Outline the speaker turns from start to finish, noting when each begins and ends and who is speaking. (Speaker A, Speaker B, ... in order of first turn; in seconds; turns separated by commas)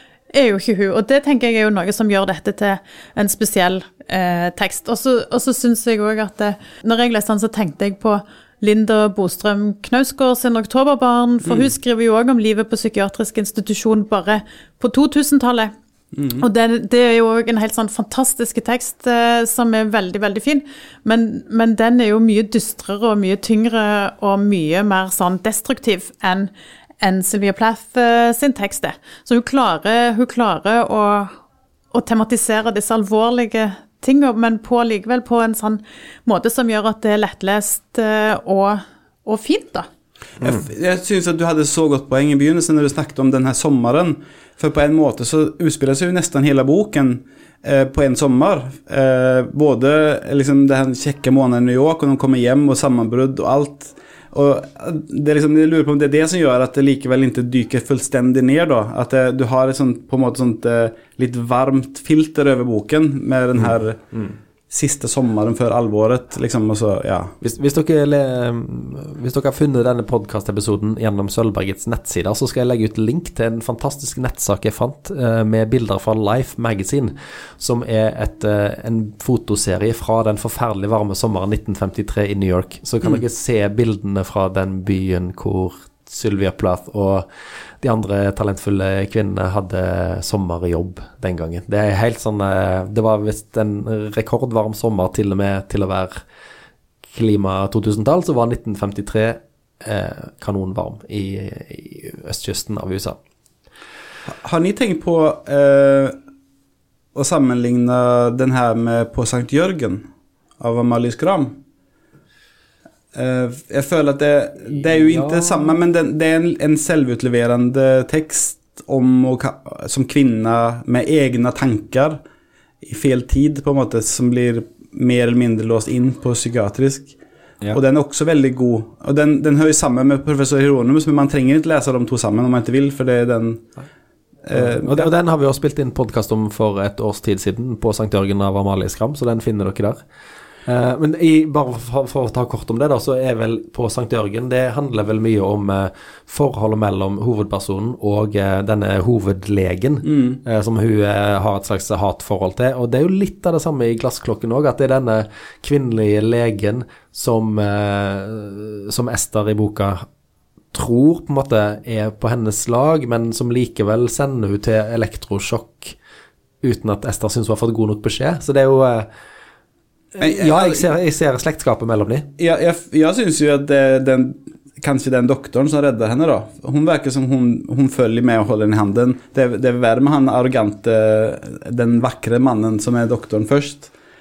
Speaker A: 0.3-15.7, Speaker B: 16.1-16.4, Speaker A: 16.3-26.5, Speaker A: 27.0-31.3, Speaker A: 31.9-39.9, Speaker B: 40.4-64.1, Speaker B: 64.7-67.3, Speaker C: 67.4-87.2, Speaker C: 87.8-96.2, Speaker C: 97.1-103.2, Speaker B: 104.4-106.2, Speaker B: 107.1-110.1, Speaker B: 110.6-111.6, Speaker B: 113.1-122.2, Speaker C: 115.1-115.7, Speaker B: 122.8-127.1, Speaker B: 127.7-133.7, Speaker B: 134.4-135.1, Speaker C: 134.5-140.0, Speaker C: 140.7-160.0, Speaker B: 150.0-150.4, Speaker C: 160.7-165.9, Speaker C: 166.6-169.1, Speaker C: 170.1-172.3, Speaker B: 170.2-170.9, Speaker B: 172.4-183.9